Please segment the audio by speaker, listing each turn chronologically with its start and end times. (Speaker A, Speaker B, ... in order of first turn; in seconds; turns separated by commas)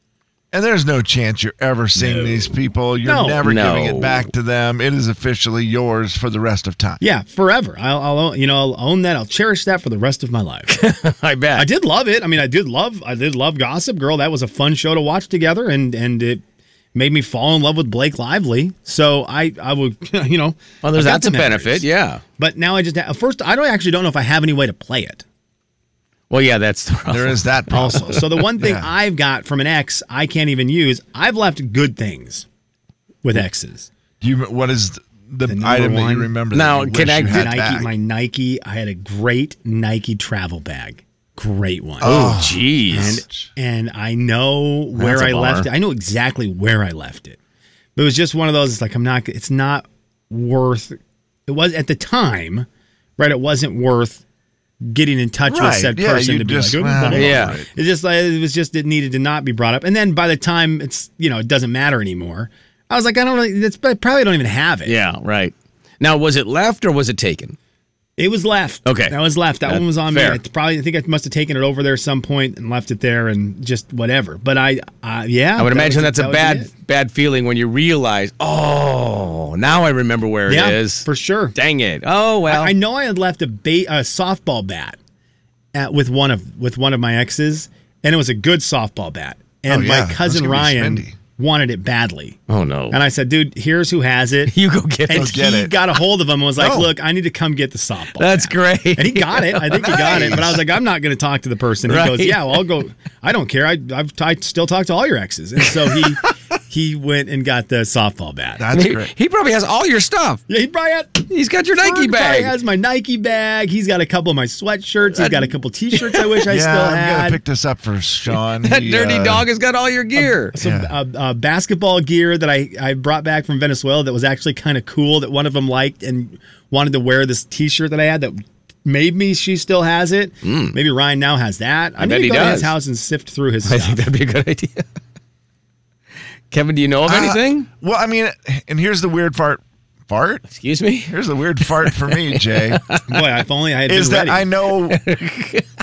Speaker A: 0.5-7.0, Speaker B: 2.0-2.5, Speaker C: 3.0-3.4, Speaker B: 3.5-4.3, Speaker C: 7.0-10.8, Speaker B: 10.7-11.7, Speaker C: 11.6-16.4, Speaker C: 16.9-21.9, Speaker B: 20.8-22.2, Speaker C: 22.4-25.2, Speaker B: 26.3-28.2, Speaker A: 27.1-28.9, Speaker C: 27.7-32.5, Speaker C: 33.2-33.9, Speaker A: 34.2-37.9, Speaker C: 35.5-36.3, Speaker B: 36.5-37.5, Speaker C: 37.3-42.3, Speaker A: 42.0-43.5, Speaker B: 42.0-43.2, Speaker C: 42.9-47.4, Speaker B: 45.0-45.7, Speaker C: 48.0-52.7, Speaker C: 53.2-54.2, Speaker C: 54.8-65.0, Speaker A: 55.5-57.7, Speaker B: 57.1-57.6, Speaker B: 64.9-67.6, Speaker C: 68.2-76.7, Speaker B: 68.9-69.2, Speaker B: 69.7-70.4, Speaker B: 75.6-82.7, Speaker C: 80.5-81.5, Speaker C: 82.5-85.0, Speaker C: 85.7-92.4, Speaker A: 89.7-91.2, Speaker B: 92.5-93.0, Speaker C: 92.9-94.5, Speaker B: 94.5-95.3, Speaker C: 95.1-108.6, Speaker A: 95.1-95.8, Speaker A: 96.6-96.9, Speaker B: 98.2-100.5, Speaker A: 99.9-100.5, Speaker B: 101.9-102.6, Speaker B: 105.8-106.1, Speaker A: 108.6-109.1, Speaker B: 108.7-110.4, Speaker C: 110.5-117.4, Speaker B: 111.3-112.5, Speaker B: 115.1-116.4, Speaker A: 116.5-119.5, Speaker B: 118.6-120.5, Speaker C: 120.2-134.1, Speaker A: 120.6-120.9, Speaker B: 130.4-130.8, Speaker B: 132.0-132.8, Speaker B: 133.7-134.9, Speaker B: 136.5-137.7, Speaker A: 137.1-140.5, Speaker B: 140.5-141.1, Speaker A: 141.1-143.0, Speaker B: 141.7-143.2, Speaker C: 143.1-144.5, Speaker A: 143.9-145.0, Speaker B: 144.9-145.7